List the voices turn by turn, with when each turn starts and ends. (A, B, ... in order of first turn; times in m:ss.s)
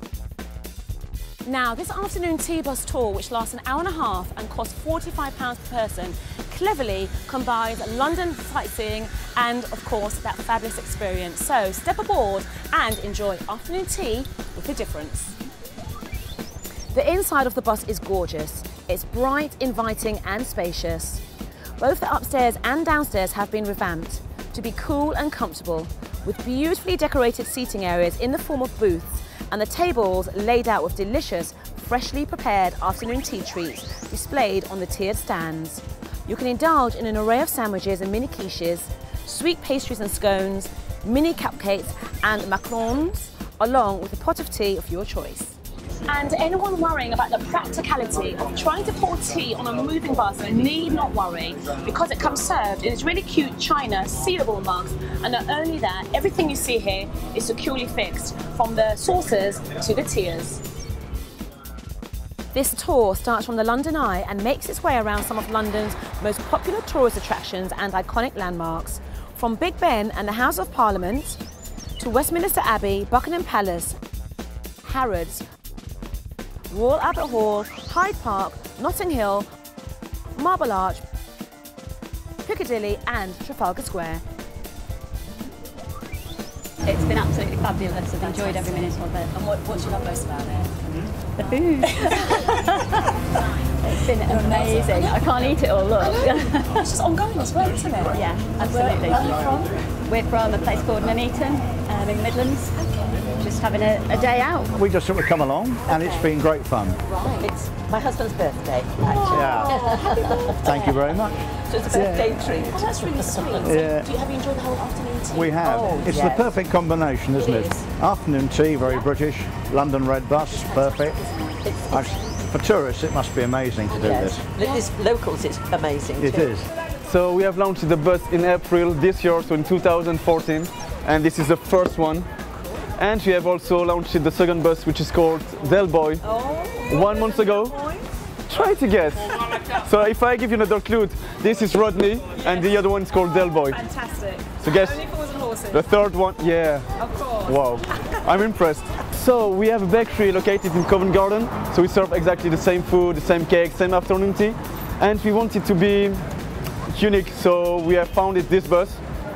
0:01.4-0:15.4 A
0:16.9-0:21.2 A
0:21.8-1:00.6 A
1:02.5-1:11.4 A
1:12.0-1:14.0 A
1:14.8-1:15.4 A
1:16.7-1:19.5 A
1:20.3-1:21.0 A
1:22.4-1:24.2 A
1:26.9-1:29.3 B
1:26.9-1:27.2 A
1:28.1-1:39.8 A
1:31.4-1:33.1 B
1:33.8-1:36.7 B
1:38.1-1:42.8 B
1:42.8-1:43.2 A
1:43.3-1:44.7 B
1:44.7-1:47.0 C
1:45.9-1:46.3 D
1:47.2-1:47.4 A
1:47.3-1:53.7 D
1:49.0-1:51.2 A
1:49.2-1:49.9 C
1:50.5-1:51.3 C
1:51.9-1:52.3 C
1:52.5-1:56.1 A
1:53.6-1:54.1 C
1:55.3-2:01.2 C
1:55.6-1:56.5 D
1:57.3-1:57.8 A
1:58.8-1:59.1 A
2:00.4-2:02.2 A
2:01.6-2:02.1 D
2:01.9-2:04.4 C
2:03.9-2:06.5 D
2:04.6-2:04.8 A
2:06.2-2:06.6 C
2:07.0-2:12.3 E
2:13.0-2:16.2 E
2:16.2-2:18.1 A
2:16.9-2:17.8 E
2:18.5-2:23.8 E
2:22.4-2:25.9 A
2:24.6-2:25.0 E
2:25.7-2:26.9 E
2:27.0-2:28.3 A
2:27.4-2:36.2 E
2:36.9-2:39.0 E